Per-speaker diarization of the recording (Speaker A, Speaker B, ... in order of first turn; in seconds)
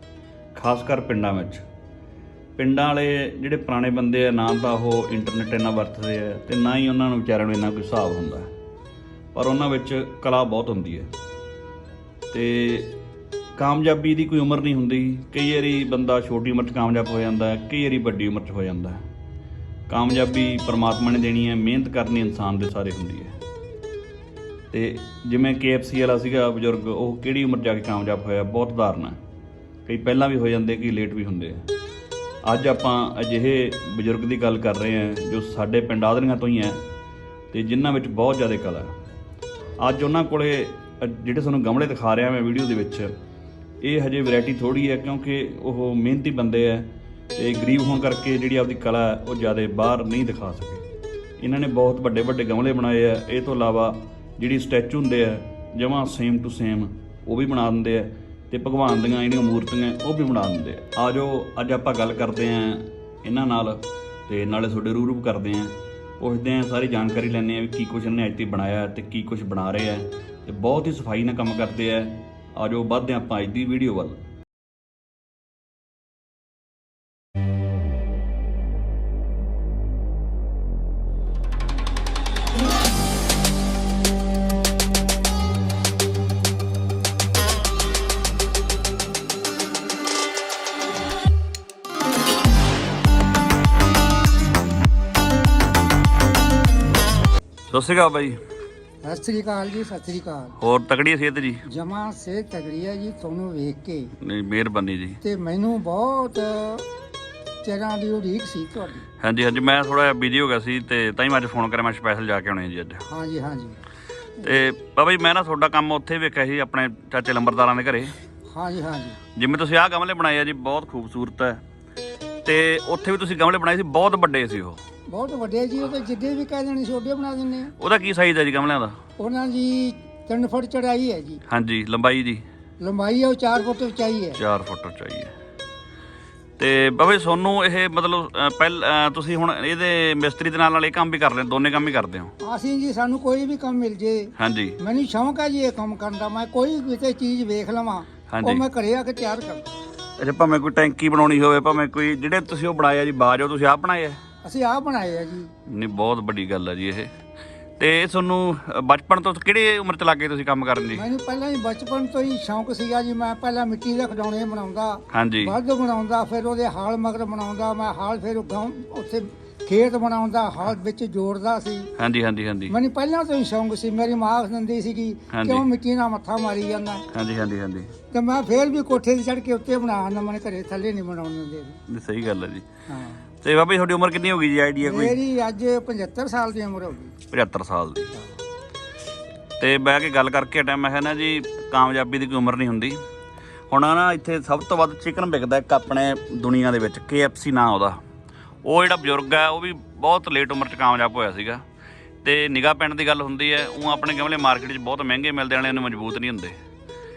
Speaker A: 0.5-1.6, 2.6-8.5, 9.3-11.1, 12.3-12.9, 13.6-19.1, 19.9-23.4, 24.7-29.2, 29.9-31.7, 32.4-36.8, 37.5-38.9, 39.8-43.1, 43.8-50.8, 51.4-74.2, 97.7-98.4, 100.6-101.6, 104.2-105.2, 109.2-113.1, 114.4-118.2, 119.4-121.6, 122.5-124.8, 127.8-129.0, 131.5-132.4, 134.4-135.3, 136.6-142.3, 144.4-144.8, 148.3-148.6, 150.2-154.2, 155.7-157.1, 157.8-161.1, 165.1-165.6, 172.0-172.7, 175.3-175.7, 177.1-177.9, 181.9-182.7, 183.4-185.2, 187.3-188.1, 189.6-193.0, 193.7-198.0, 198.7-201.6, 202.2-206.6
Speaker B: 99.0-100.6, 101.7-104.1, 105.2-106.9, 107.6-109.1, 113.1-113.8, 118.5-119.2, 125.1-127.7, 129.2-131.4, 132.8-134.4, 142.4-149.7, 154.4-155.5, 160.9-171.9, 172.7-177.1, 178.1-181.8, 182.9-183.2, 184.8-187.1